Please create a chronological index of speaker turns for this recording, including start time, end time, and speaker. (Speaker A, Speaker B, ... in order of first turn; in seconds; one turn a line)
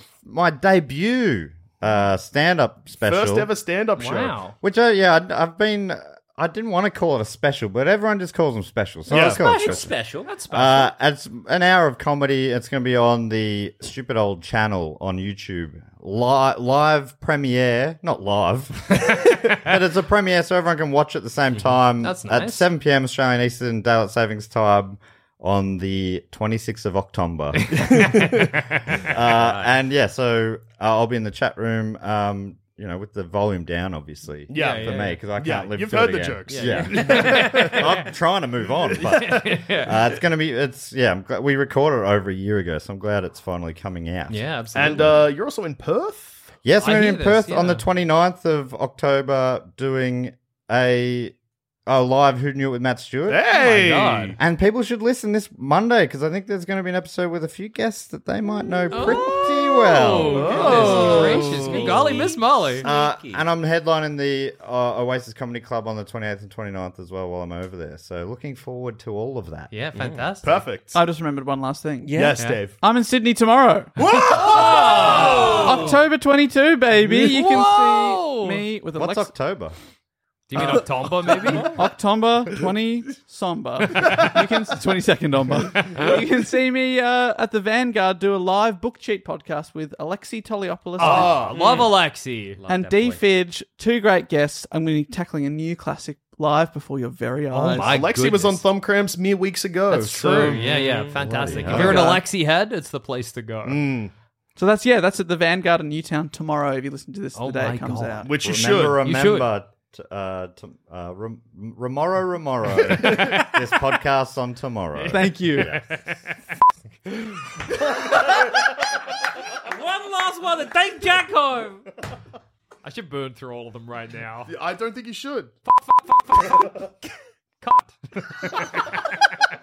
Speaker A: 0.3-3.5
Speaker B: 3.1-4.4
Speaker C: 4.0-4.5
Speaker A: 4.6-10.0
Speaker B: 9.1-9.4
Speaker C: 9.1-10.9
Speaker D: 9.3-10.9
Speaker A: 10.5-28.1
Speaker C: 22.0-22.7
Speaker C: 27.7-28.3
Speaker B: 27.7-28.7
Speaker A: 29.1-45.0
Speaker D: 29.2-29.8
Speaker B: 34.5-37.9
Speaker C: 34.5-35.2
Speaker C: 36.5-38.0
Speaker D: 36.8-37.5
Speaker C: 39.0-40.1
Speaker C: 44.3-45.3
Speaker B: 44.7-46.5
Speaker A: 46.6-51.3
Speaker C: 46.8-47.8
Speaker A: 51.9-53.4
Speaker B: 53.3-54.4
Speaker C: 53.4-54.4
Speaker A: 54.4-60.6
Speaker C: 58.9-62.9
Speaker B: 60.2-62.1
Speaker D: 60.5-63.5
Speaker A: 62.8-69.7
Speaker C: 69.7-70.7
Speaker D: 69.9-70.3
Speaker B: 70.4-71.0
Speaker E: 70.9-74.2
Speaker D: 72.0-72.4
Speaker B: 72.2-72.8
Speaker C: 72.4-72.7
Speaker C: 74.0-76.1
Speaker B: 74.2-75.8
Speaker D: 75.1-75.4
Speaker E: 75.5-79.3
Speaker C: 76.9-78.7
Speaker A: 78.9-79.7
Speaker C: 80.5-81.9
Speaker E: 80.6-80.8
Speaker D: 81.5-81.8
Speaker E: 81.5-91.5
Speaker C: 91.0-92.6
Speaker B: 91.0-91.9
Speaker D: 91.5-91.9
Speaker D: 92.5-93.2
Speaker E: 92.7-98.0
Speaker C: 97.5-98.6
Speaker B: 97.8-100.7
Speaker C: 99.9-103.9
Speaker D: 100.4-101.7
Speaker A: 101.2-102.2
Speaker B: 101.7-102.1
Speaker E: 101.8-102.2
Speaker B: 103.6-104.1
Speaker E: 104.6-108.3
Speaker C: 107.3-109.5
Speaker B: 108.2-109.0
Speaker A: 108.4-115.9
Speaker C: 113.1-113.4
Speaker C: 115.0-116.2
Speaker E: 115.1-115.6
Speaker C: 117.1-118.2
Speaker D: 119.6-121.9
Speaker C: 122.8-124.5
Speaker B: 124.5-125.5
Speaker C: 125.7-126.9
Speaker C: 127.6-128.9